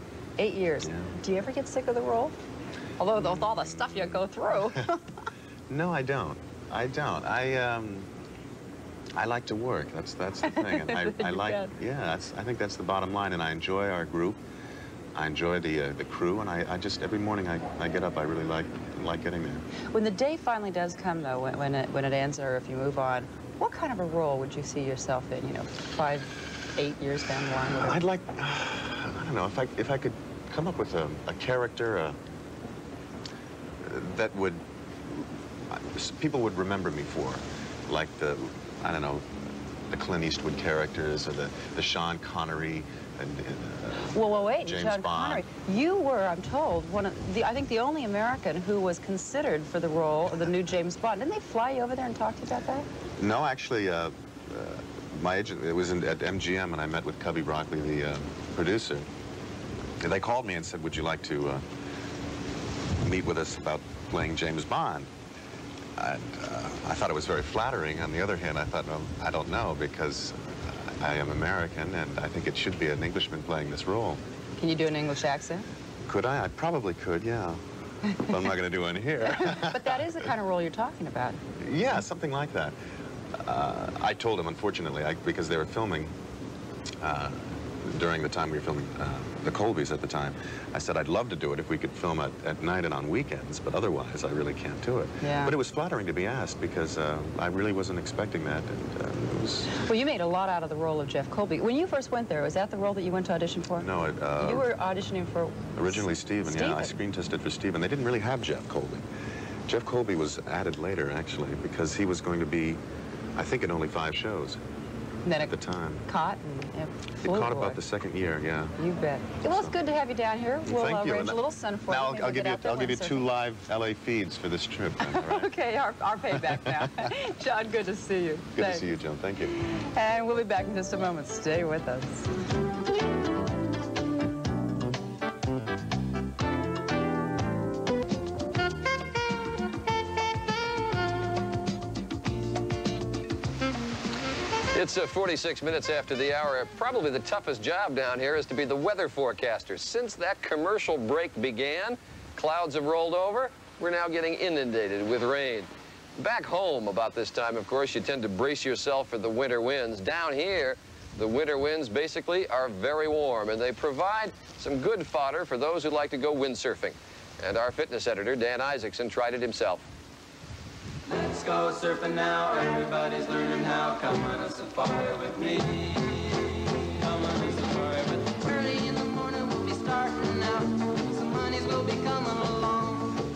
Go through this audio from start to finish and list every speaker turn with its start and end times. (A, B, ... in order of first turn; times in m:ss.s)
0:00.4-0:02.4 A
0:00.8-0:01.1 B
0:03.0-0:05.0 A
0:03.1-0:04.7 B
0:05.7-0:08.1 B
0:09.2-0:14.4 B
0:10.4-0:11.7 A
0:15.1-0:19.6 B
0:19.9-0:28.0 A
0:27.7-0:32.2 B
0:33.8-0:39.3 B
0:39.9-0:45.4 B
0:44.1-0:52.9 A
0:50.3-0:50.8 B
0:53.2-0:59.1 B
1:00.0-1:01.6 B
1:03.0-1:05.1 B
1:06.0-1:14.2 B
1:14.6-1:15.6 A
1:16.1-1:17.6 B
1:18.3-1:20.3 B
1:19.2-1:21.4 A
1:21.6-1:22.8 B
1:23.3-1:26.1 B
1:27.0-1:39.7 B
1:35.2-1:35.5 A
1:39.8-1:46.9 A
1:43.8-1:44.7 B
1:45.7-1:49.0 B
1:49.6-1:52.8 B
1:53.3-1:54.6 B
1:55.2-1:55.5 A
1:55.4-1:56.0 B
1:56.0-1:57.8 A
1:57.2-1:58.7 B
1:58.8-2:03.3 A
1:59.4-1:59.8 B
2:00.6-2:05.5 B
2:05.0-2:08.8 A
2:06.4-2:07.1 B
2:08.5-2:09.5 B
2:09.7-2:12.3 A
2:24.7-2:49.9 C
2:51.0-3:03.2 D